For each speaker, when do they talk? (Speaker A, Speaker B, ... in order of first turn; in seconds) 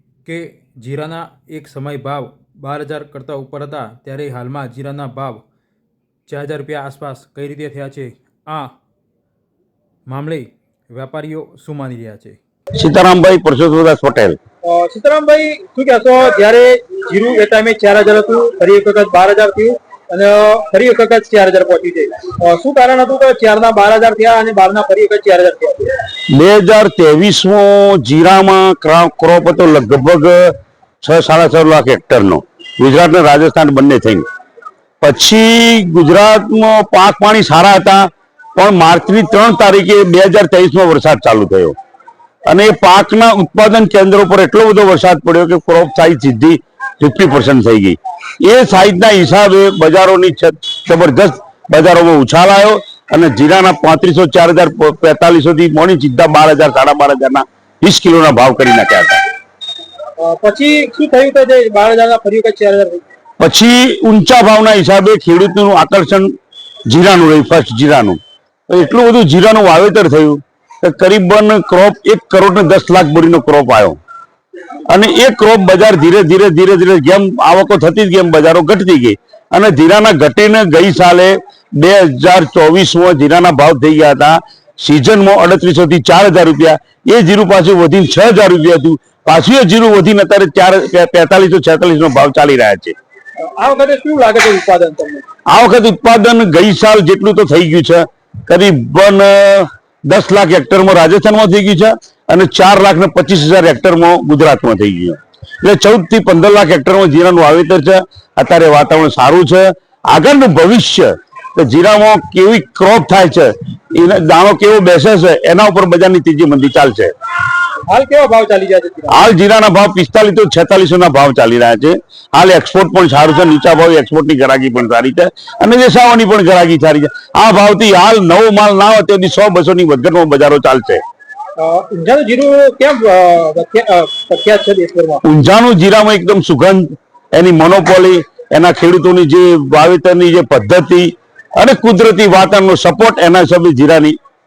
Speaker A: 0.2-5.4, 6.3-8.7, 10.1-12.4
Speaker B: 12.8-14.4, 26.3-34.2, 35.0-41.8, 42.5-59.2, 63.4-66.3, 66.9-74.0, 74.9-92.9, 95.5-117.1, 119.1-131.0, 135.2-144.2
Speaker C: 14.6-25.9, 60.2-63.0, 93.5-95.2, 117.9-119.2, 131.6-135.2